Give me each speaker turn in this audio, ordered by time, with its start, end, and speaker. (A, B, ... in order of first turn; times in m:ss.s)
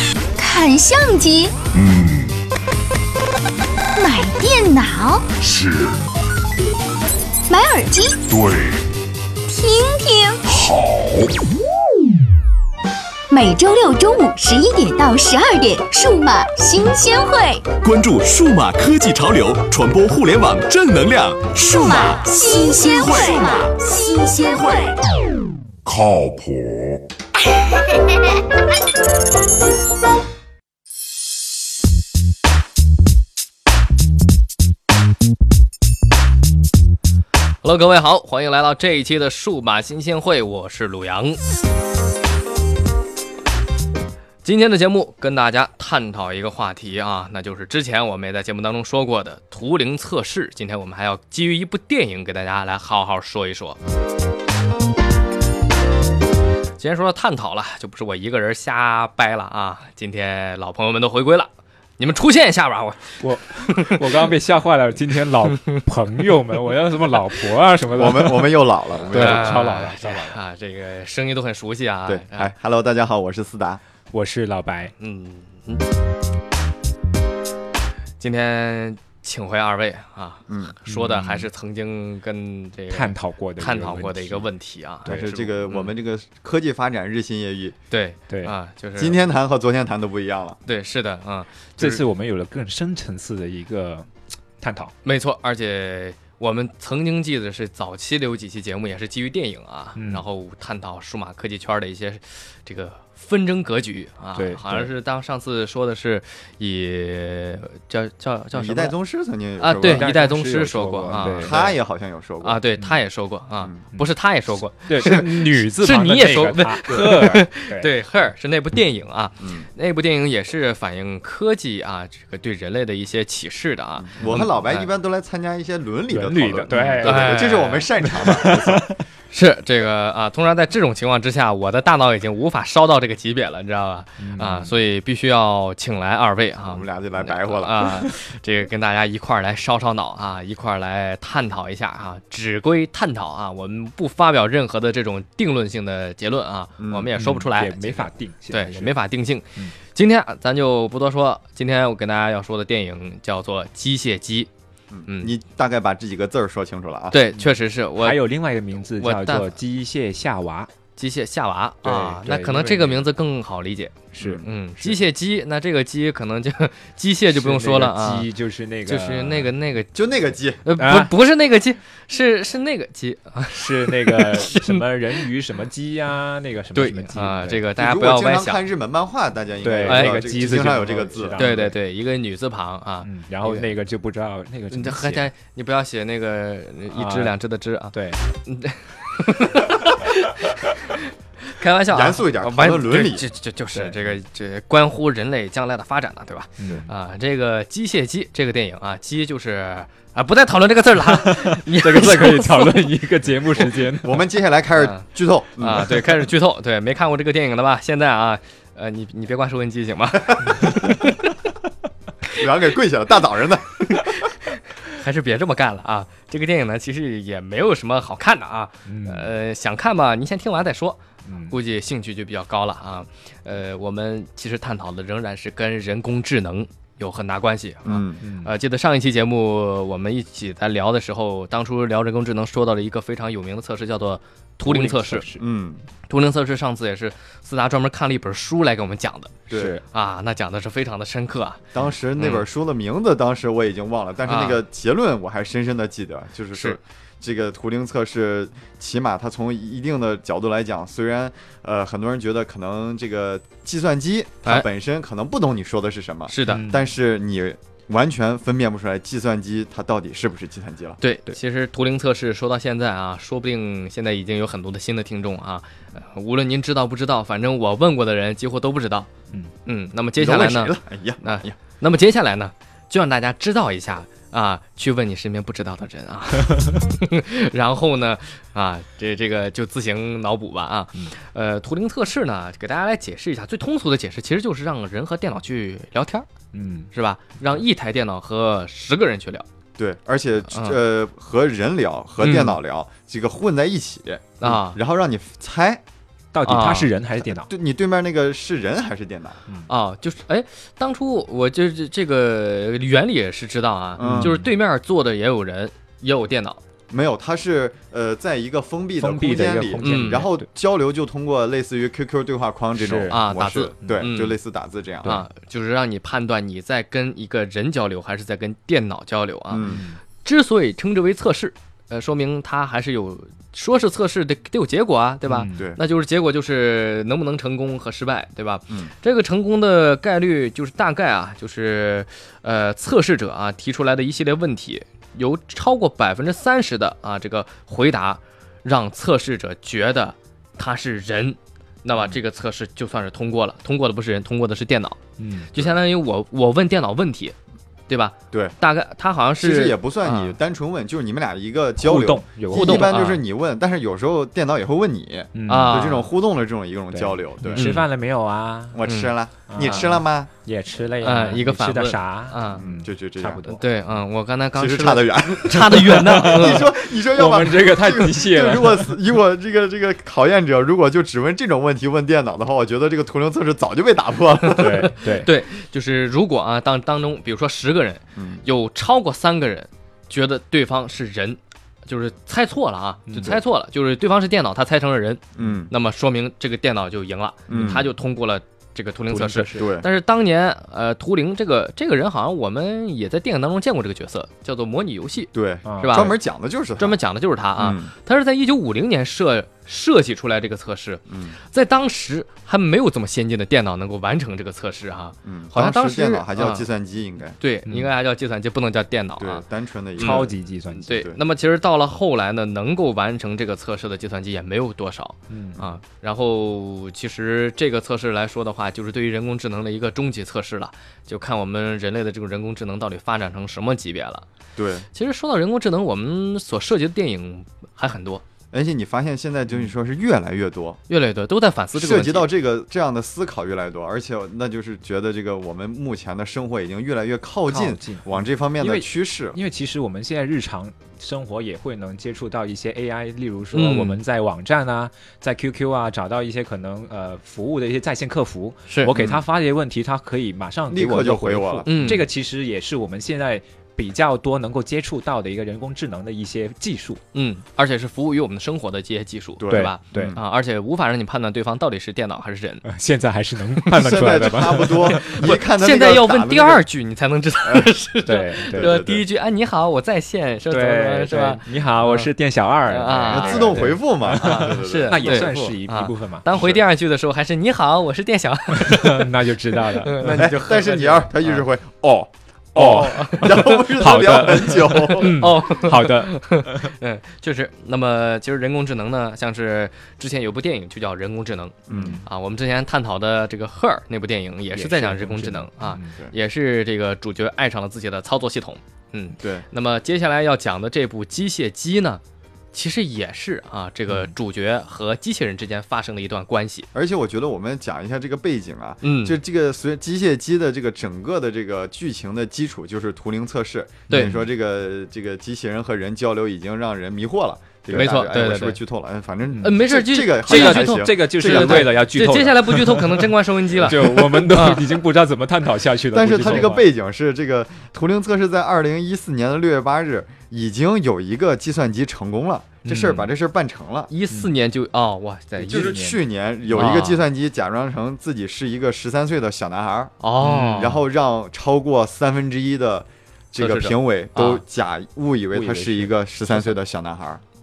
0:00.4-0:01.6 A
0:01.7-0:02.4 B
0:04.0-0:05.3 A
0:05.4-0:06.0 B
0:07.5-0:08.2 A
0:08.3-0:08.9 B
0:09.5-0:10.4 A
0:10.4-0:11.4 B
0:13.3-0:17.7 A
0:17.7-0:24.9 C
0:21.6-0:24.9 A
0:25.8-0:27.0 B
0:37.6-0:41.4 D
0:44.4-0:53.8 D
0:56.8-1:04.3 D
1:03.2-1:10.4 E
1:05.5-1:05.8 D
1:07.9-1:09.7 F
1:09.0-1:12.5 D
1:12.0-1:13.8 F
1:14.1-1:14.9 E
1:15.0-1:15.9 D
1:18.2-1:25.9 D
1:20.5-1:20.8 F
1:20.8-1:21.4 E
1:22.9-1:24.5 E
1:25.0-1:27.8 F
1:27.9-1:29.2 D
1:29.0-1:30.6 F
1:30.7-1:31.7 D
1:31.8-1:34.0 E
1:34.6-1:34.9 E
1:35.0-1:48.9 D
1:40.0-1:40.2 E
1:44.3-1:44.9 E
1:48.5-1:50.1 F
1:49.6-1:51.7 D
1:49.8-1:51.6 E
1:51.2-1:52.6 F
1:52.4-2:04.9 D
1:54.8-1:57.9 E
1:59.4-1:59.7 F
2:04.0-2:08.9 F
2:04.2-2:04.5 E
2:06.1-2:07.4 E
2:06.7-2:07.9 D
2:08.0-2:09.0 E
2:09.3-2:34.5 D
2:14.2-2:14.7 E
2:16.6-2:17.8 F
2:26.8-2:27.1 F
2:27.2-2:28.9 E
2:34.9-2:37.2 F
2:35.1-2:35.3 D
2:37.1-2:38.3 D
2:38.0-2:40.7 E
2:39.0-2:39.5 D
2:41.0-2:48.3 D
2:41.8-2:43.1 E
2:44.1-2:44.4 E
2:47.3-2:49.5 E
2:48.8-2:49.9 D
2:49.9-2:50.6 F
2:50.6-2:54.8 D
2:50.8-2:51.1 E
2:53.5-2:57.6 E
2:56.7-2:58.6 D
2:57.8-3:01.7 F
2:59.6-3:01.7 E
2:59.8-3:00.6 D
3:01.4-3:03.7 D
3:03.0-3:05.3 E
3:04.7-3:22.9 D
3:06.9-3:07.3 E
3:07.9-3:08.2 E
3:11.9-3:13.3 F
3:16.6-3:16.9 E
3:21.0-3:24.2 E
3:23.9-3:26.3 F
3:24.8-3:25.0 D
3:25.6-3:31.4 D
3:32.3-3:34.2 F
3:33.9-3:55.3 D
3:38.8-3:39.3 E
3:41.2-3:41.6 E
3:47.8-3:48.2 F
3:48.2-3:48.5 E
3:54.6-3:55.4 E
3:55.4-3:55.8 F
3:56.1-4:01.6 D
3:59.5-3:59.8 F
3:59.5-3:59.8 E
4:01.7-4:21.0 F
4:02.2-4:02.4 D
4:04.3-4:04.6 D
4:06.5-4:06.8 D
4:16.3-4:16.7 D
4:16.4-4:16.8 E
4:21.0-4:29.1 D
4:29.6-4:46.3 D
4:30.2-4:31.6 F
4:46.5-4:46.9 E
4:46.9-4:49.4 D
4:49.8-4:55.8 F
4:50.5-4:50.8 D
4:52.2-4:52.6 D
4:54.4-4:54.8 D
4:56.3-4:57.5 E
4:56.4-4:56.9 D
4:57.2-4:59.4 F
4:59.7-5:06.6 D
5:04.0-5:04.4 F
5:04.0-5:04.4 E
5:06.9-5:15.2 F
5:09.0-5:10.5 E
5:09.8-5:10.2 D
5:12.8-5:13.2 E
5:13.1-5:14.4 D
5:15.0-5:45.0 D
5:19.5-5:19.8 F
5:19.6-5:20.0 E
5:25.2-5:25.6 E
5:25.5-5:25.8 F
5:45.2-5:45.5 E
5:45.5-5:47.3 D
5:47.9-5:50.4 D
5:49.4-5:57.8 F
5:51.8-5:52.9 E
5:52.5-5:53.2 D
5:55.3-5:55.8 E
5:55.5-5:56.1 D
5:56.9-5:58.8 E
5:57.5-5:57.8 D
5:58.7-6:00.3 F
5:58.8-6:00.0 D
5:59.5-6:03.6 E
6:01.0-6:02.6 D
6:02.5-6:03.6 F
6:03.6-6:06.7 D
6:04.5-6:14.9 F
6:05.8-6:08.9 E
6:14.5-6:36.2 D
6:14.6-6:15.3 E
6:18.2-6:18.4 F
6:23.1-6:23.4 E
6:25.4-6:25.7 F
6:27.5-6:27.9 F
6:29.1-6:29.6 E
6:29.6-6:29.9 F
6:35.3-6:37.0 F
6:35.6-6:36.1 E
6:36.8-6:46.7 D
6:37.6-6:37.9 F
6:41.1-6:41.4 F
6:45.2-6:47.4 F
6:47.4-6:49.4 D
6:49.2-6:50.3 F
6:50.0-6:51.0 E
6:50.0-7:04.2 D
6:50.9-6:51.2 F
6:55.3-6:55.6 E
7:04.6-7:04.8 F
7:04.9-7:08.2 D
7:08.5-7:10.8 F
7:10.9-7:12.3 D
7:11.7-7:19.4 F
7:17.5-7:37.0 E
7:23.5-7:24.0 D
7:28.7-7:28.9 D
7:28.9-7:29.2 F
7:30.7-7:32.0 F
7:31.7-7:32.0 D
7:37.1-7:42.6 D
7:39.4-7:40.2 F
7:39.5-7:40.1 E
7:42.6-7:45.3 E
7:43.7-7:46.6 F
7:43.8-7:52.1 D
7:47.4-7:47.7 F
7:48.0-7:48.8 E
7:48.5-7:49.0 F
7:50.5-7:56.3 E
7:52.7-8:01.4 D
7:53.1-7:55.5 F
7:56.3-7:56.6 F
7:58.5-8:00.3 E
8:00.1-8:05.3 F
8:02.5-8:06.7 E
8:02.6-8:03.6 D
8:04.9-8:22.0 D
8:11.7-8:12.0 F
8:11.7-8:12.0 E
8:14.5-8:15.9 E
8:19.2-8:19.4 F
8:22.5-8:26.7 D
8:26.7-8:41.8 F
8:28.8-8:29.2 D
8:33.9-8:34.2 D
8:37.7-8:38.6 D
8:39.4-8:44.7 D
8:40.2-8:46.6 E
8:43.7-8:44.0 F
8:45.9-8:53.9 F
8:52.6-8:53.1 E
8:53.9-8:55.8 D
8:55.4-8:56.0 E
8:55.4-8:59.9 F
8:56.5-8:57.0 D
9:00.0-9:00.8 D
9:00.2-9:00.7 E
9:00.5-9:07.2 F
9:03.4-9:04.4 D
9:05.3-9:06.5 E